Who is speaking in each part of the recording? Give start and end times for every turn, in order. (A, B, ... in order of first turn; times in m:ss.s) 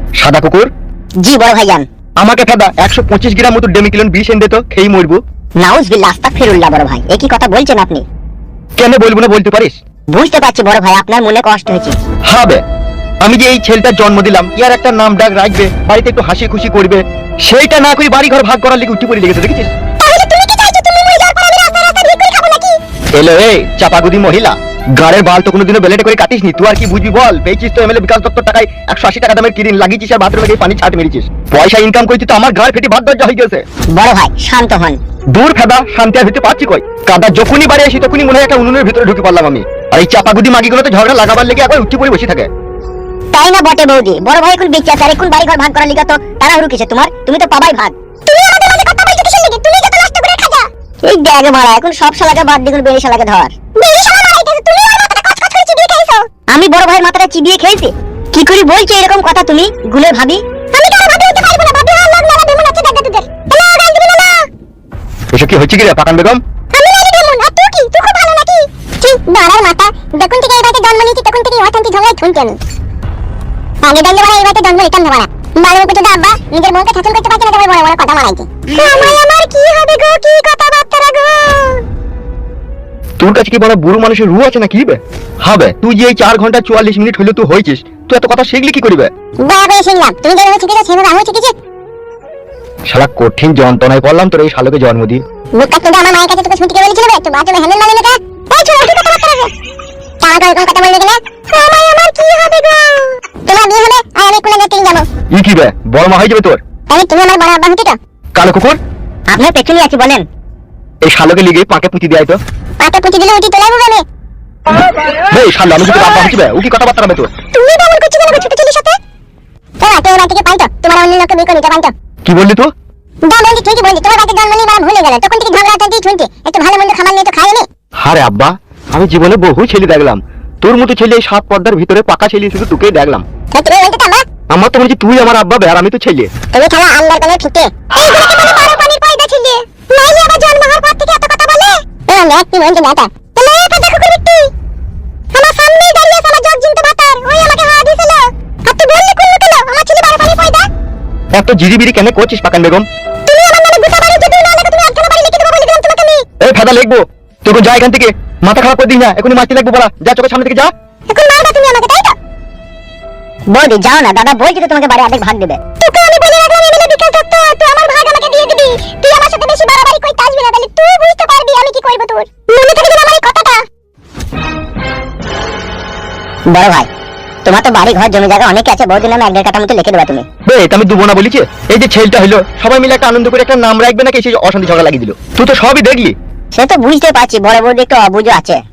0:00.2-0:00.7 A
0:01.2-0:01.9 B
0:02.2-0:05.2 A
0:05.6-0:08.0 B
0:08.8-0:09.8 A
0:10.1-0:12.0 B
0:12.3-0:12.6 A
0:13.2-0:19.7 A
0:20.0-0:22.8 C
0:23.2-0:33.6 A
0:33.9-0:35.0 B
0:35.3-0:42.5 A
0:43.3-0:48.0 B
0:48.3-0:50.7 C
0:51.0-0:53.5 B
0:53.8-0:56.3 C
0:56.5-1:00.4 B
1:00.7-1:04.4 C
1:05.3-1:06.4 A
1:06.7-1:12.6 C
1:13.8-1:21.8 C
1:23.2-1:29.1 A
1:29.4-1:31.5 C
1:32.9-1:35.2 A
1:35.6-1:39.5 C
1:40.2-1:45.1 C
1:45.3-1:46.6 A
1:46.9-1:48.0 C
1:48.4-1:48.8 A
1:49.3-1:50.2 B
1:51.0-1:52.4 A
1:52.8-1:54.0 C
1:55.2-1:57.3 A
1:57.5-1:59.0 C
1:59.8-2:01.9 C
2:02.2-2:02.7 A
2:03.2-2:07.7 C
2:08.0-2:13.2 A
2:13.5-2:14.2 C
2:14.5-2:16.3 A
2:16.5-2:24.5 C
2:25.3-2:30.7 C
2:31.3-2:32.9 A
2:33.2-2:36.2 C
2:36.4-2:40.7 A
2:41.1-2:42.2 C
2:43.5-2:45.6 B
2:45.8-2:53.6 C
2:56.5-2:56.9 B
2:57.4-3:00.2 B
3:00.5-3:06.2 A
3:06.5-3:08.6 B